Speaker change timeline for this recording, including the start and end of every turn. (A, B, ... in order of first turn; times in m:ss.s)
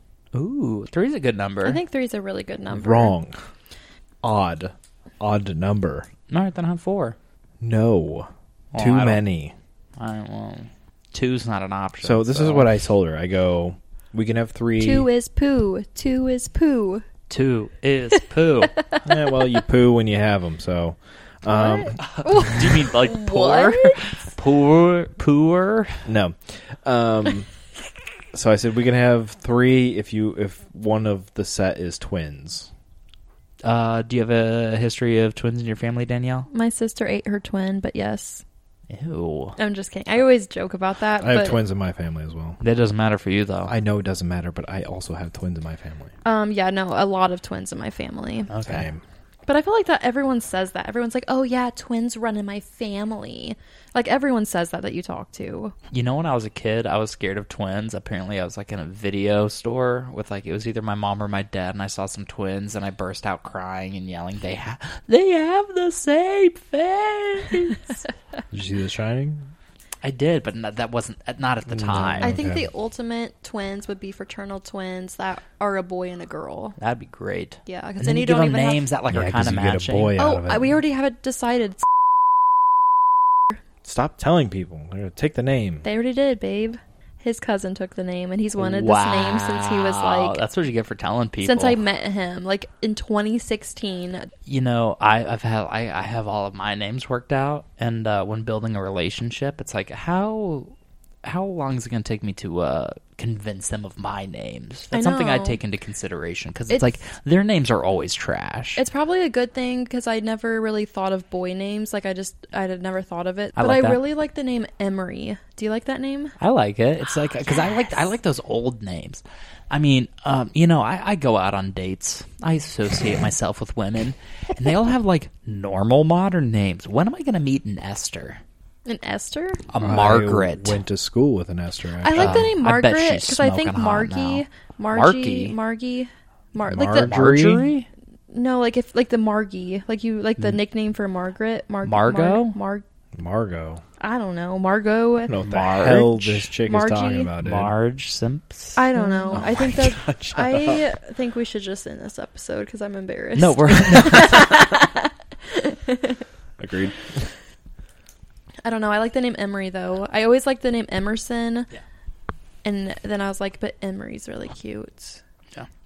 0:00.3-0:01.8 A
0:01.6-0:03.1 B
0:02.7-0:03.4 C
0:04.2-0:06.1 C
0:06.3-0:07.2 A
0:07.6-0:09.5 C
0:08.7-0:09.2 A
0:10.0-0:12.7 A
0:12.0-0:15.1 C
0:14.8-0:17.0 B
0:17.3-0:18.8 A
0:18.7-0:19.0 B
0:19.0-0:22.0 C
0:21.5-0:24.0 B
0:22.0-0:26.0 A
0:26.0-0:27.5 C
0:28.3-0:32.7 C
0:33.6-0:36.5 A
0:36.5-0:38.4 B
0:38.9-0:39.6 A
0:39.6-0:41.6 B
0:41.2-0:42.6 C
0:42.6-0:43.7 A
0:43.7-0:46.1 C
0:46.2-0:48.5 B
0:48.5-0:48.9 A
0:48.6-0:49.0 C
0:49.5-0:55.7 B
0:55.9-1:07.9 A
1:08.5-1:09.5 C
1:10.0-1:12.4 A
1:11.7-1:12.7 C
1:12.0-1:16.8 B
1:16.8-1:20.2 A
1:17.6-1:18.9 B
1:19.1-1:20.7 C
1:20.2-1:21.9 B
1:23.8-1:25.8 C
1:25.8-1:30.4 B
1:28.6-1:31.8 A
1:31.4-1:34.3 B
1:34.4-1:48.8 A
1:44.9-1:45.6 B
1:48.8-1:56.3 B
1:53.6-1:54.0 A
1:56.4-2:08.4 A
2:08.8-2:09.6 B
2:09.7-2:10.8 A
2:09.8-2:12.5 C
2:12.0-2:17.3 B
2:12.1-2:15.6 A
2:16.6-2:17.7 C
2:16.9-2:17.9 A
2:18.3-2:22.8 B
2:21.8-2:22.6 A
2:23.2-2:23.8 C
2:24.0-2:27.3 B
2:25.3-2:27.7 C
2:25.4-2:26.1 A
2:27.4-2:29.4 A
2:28.8-2:36.2 B
2:29.3-2:30.8 C
2:33.4-2:34.7 A
2:36.6-2:37.3 C
2:38.6-2:41.7 B
2:42.6-2:45.2 B